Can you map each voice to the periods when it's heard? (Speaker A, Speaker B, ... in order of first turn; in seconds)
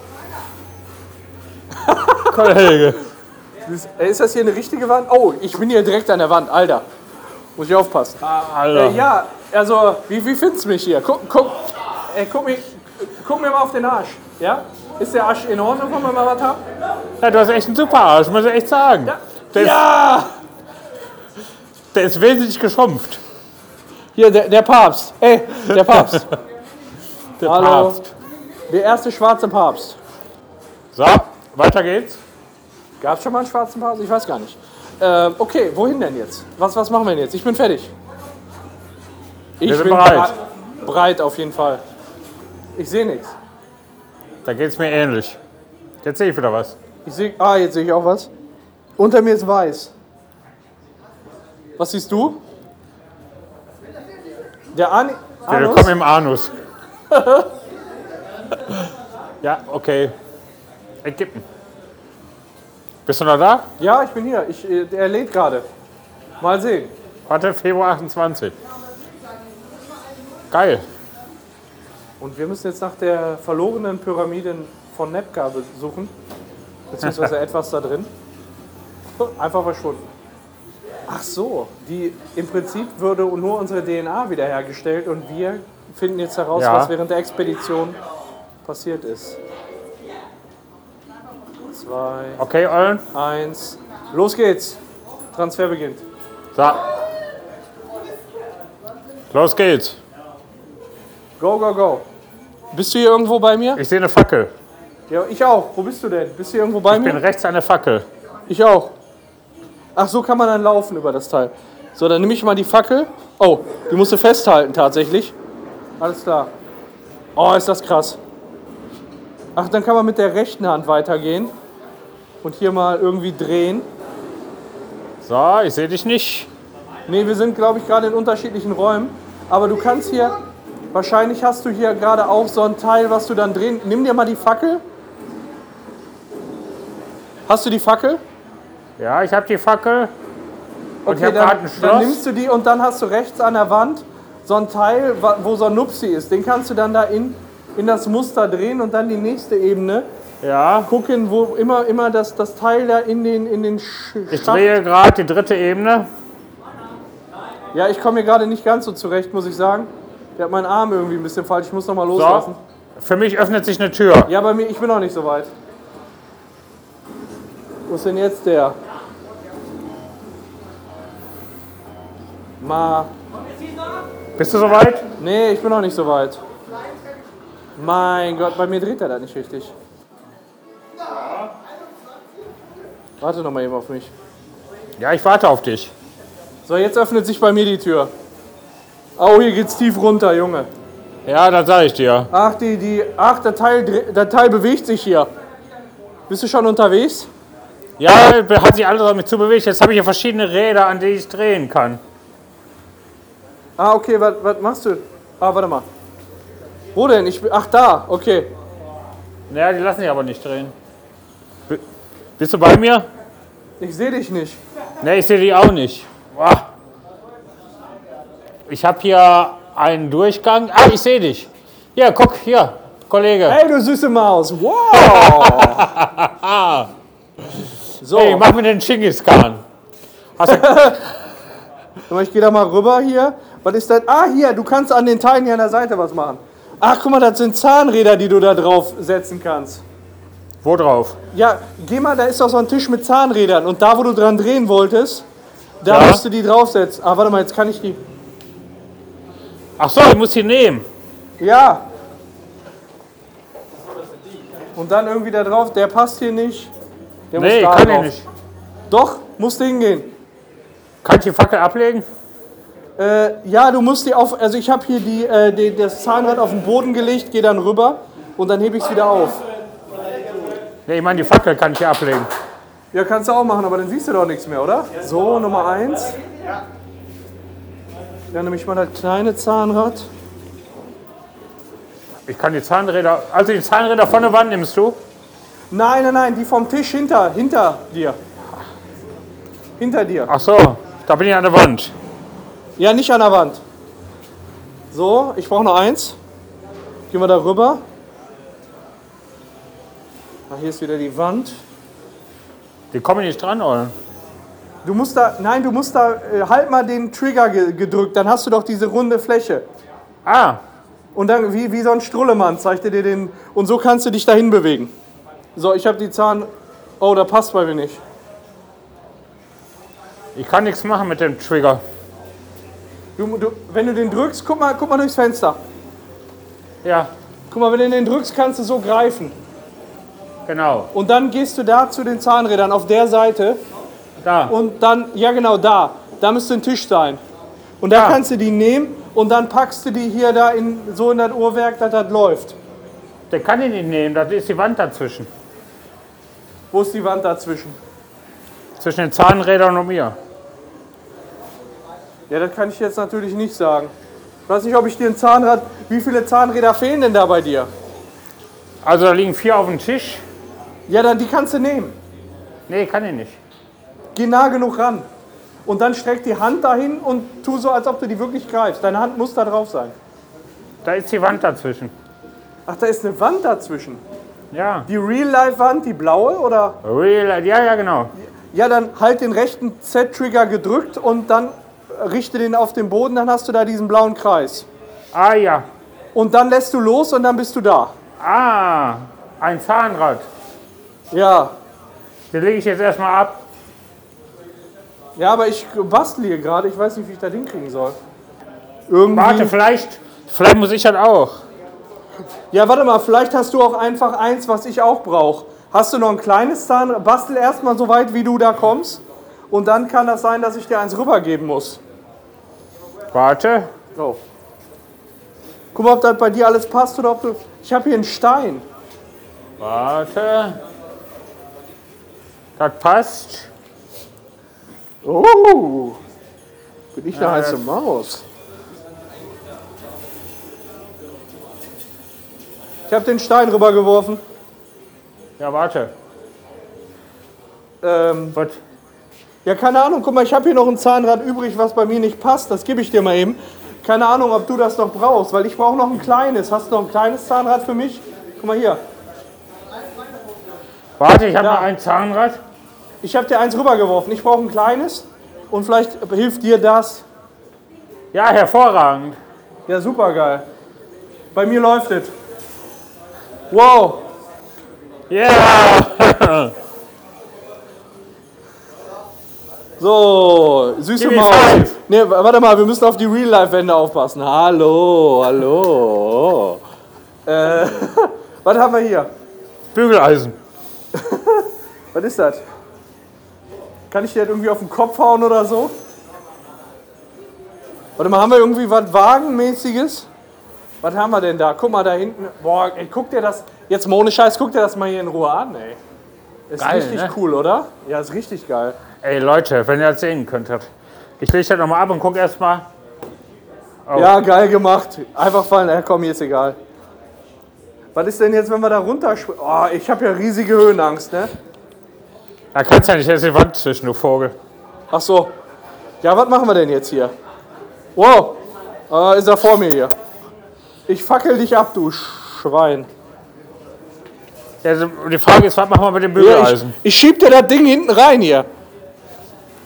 Speaker A: 1.7-2.4, 3.6-6.8, 7.5-16.6, 19.1-20.3, 24.1-26.3, 27.4-28.0, 28.7-30.0, 33.0-37.9, 39.6-41.8, 42.7-43.3, 47.0-48.3, 49.0-49.9, 51.8-52.4, 54.7-55.9, 57.1-57.5, 63.8-65.7, 66.4-66.9, 72.2-76.1, 76.9-78.1, 79.2-80.1, 81.1-88.0, 88.6-89.4, 91.7-92.4, 93.1-94.8, 95.3-96.0, 101.4-102.0, 102.7-103.8, 105.1-107.2, 108.5-108.9, 110.0-115.3, 116.0-116.5, 117.3-118.2, 119.5-121.5, 122.4-123.9, 127.1-130.3, 130.9-134.8, 137.4-138.2, 141.0-150.1, 150.8-154.8, 157.7-162.6, 164.2-165.5, 167.9-168.8, 172.6-173.1, 175.2-176.4, 177.8-179.7, 183.2-184.1, 186.6-188.1, 189.2-190.7, 192.3-195.3, 196.3-197.3, 203.8-205.9, 206.9-208.5, 213.8-214.6, 223.5-225.9, 228.0-228.5, 230.4-231.0, 232.1-239.8, 241.3-245.2, 245.8-248.0, 251.4-251.8, 254.7-256.7, 257.3-258.1, 258.9-260.1, 263.0-269.4, 272.9-276.1, 278.3-280.1, 285.7-288.2, 289.8-290.3, 292.8-293.6, 294.9-296.2, 297.1-297.8, 300.5-301.6, 304.8-309.6, 311.1-314.9, 315.6-316.5, 317.0-318.0, 323.2-325.6, 327.5-329.4, 330.9-333.6, 334.5-337.2, 337.8-342.6, 346.7-347.8, 352.3-353.9, 354.5-357.7, 360.9-362.0, 364.1-365.1, 365.6-369.9, 372.7-374.0, 374.9-376.8, 378.5-384.7, 386.1-387.9, 391.1-391.5, 395.1-398.0, 398.9-399.5, 402.5-411.8, 413.9-414.2, 415.7-418.6, 425.0-426.0, 426.9-428.2, 432.9-434.2, 437.8-438.4, 439.4-448.8, 451.4-451.7, 453.0-457.1, 459.7-460.4, 461.3-462.1, 463.5-464.0, 469.8-476.6, 477.2-479.1, 480.9-482.4, 483.9-485.7, 488.0-490.1, 490.8-495.8, 496.5-498.8, 503.9-506.6, 507.9-511.3, 514.9-515.3, 516.0-517.1, 518.0-518.4, 518.9-519.9, 520.9-522.9, 526.1-528.5
Speaker B: 2.2-3.0, 8.2-9.1, 17.2-19.8, 21.9-23.2, 27.4-28.1, 30.9-32.2, 39.6-40.3, 44.4-45.4, 46.0-46.7, 55.5-56.5, 59.4-60.1, 61.0-61.4, 63.0-63.6, 67.3-68.5, 70.5-70.8, 86.5-86.9, 92.4-93.0, 96.5-96.8, 99.3-100.0, 103.8-104.5, 106.9-108.0, 125.2-126.5, 139.0-140.1, 141.1-142.2, 150.4-150.9, 154.3-156.1, 162.1-164.3, 174.4-175.0, 185.0-185.9, 191.2-192.3, 198.0-202.0, 209.5-210.7, 212.4-213.1, 215.0-216.7, 218.7-223.6, 225.0-226.9, 228.1-229.6, 230.4-230.9, 240.6-241.2, 245.9-246.2, 249.8-250.8, 257.3-258.2, 261.0-262.1, 270.9-272.3, 282.3-285.0, 290.3-291.9, 302.9-303.9, 310.2-310.6, 320.3-321.8, 326.8-327.1, 330.5-330.9, 334.2-334.5, 337.9-338.2, 343.3-345.3, 348.8-350.1, 358.8-360.2, 362.7-363.4, 370.8-371.9, 374.5-374.9, 376.8-378.1, 385.1-385.7, 388.2-390.3, 392.3-393.4, 399.1-401.4, 413.1-413.7, 419.6-420.6, 422.6-423.5, 427.1-427.6, 435.4-435.9, 438.3-438.6, 451.0-452.4, 458.1-459.2, 465.1-466.5, 471.0-471.8, 479.7-480.4, 496.6-497.1, 499.0-500.6, 501.2-502.7, 503.9-504.1, 512.5-514.4, 524.6-526.7